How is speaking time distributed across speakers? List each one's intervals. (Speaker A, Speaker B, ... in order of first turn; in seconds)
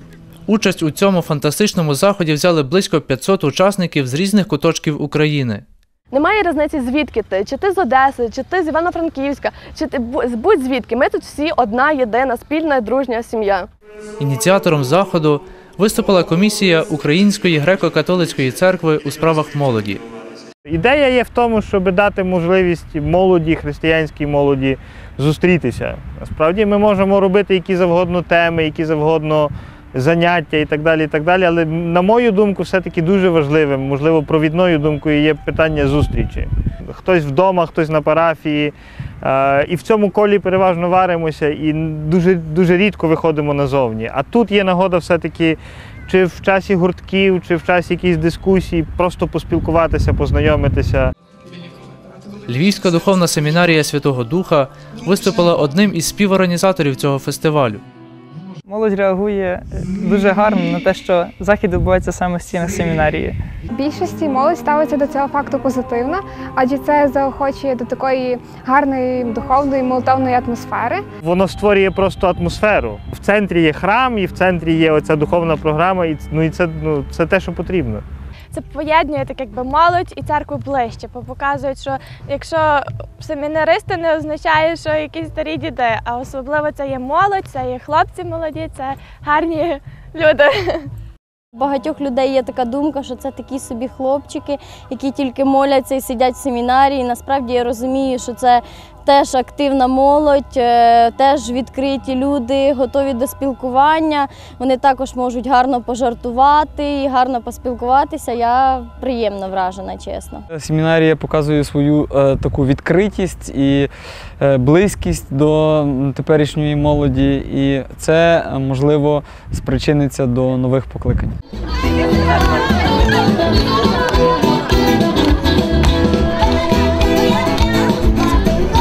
Speaker A: 0.5-5.6, 14.2-20.0, 52.5-57.8
Speaker B: 6.1-13.6
Speaker C: 20.7-51.1, 71.2-78.0
Speaker D: 58.7-63.4
Speaker E: 63.8-71.0
Speaker F: 78.5-90.9
Speaker G: 91.6-110.4
Speaker H: 110.5-113.9, 114.4-121.3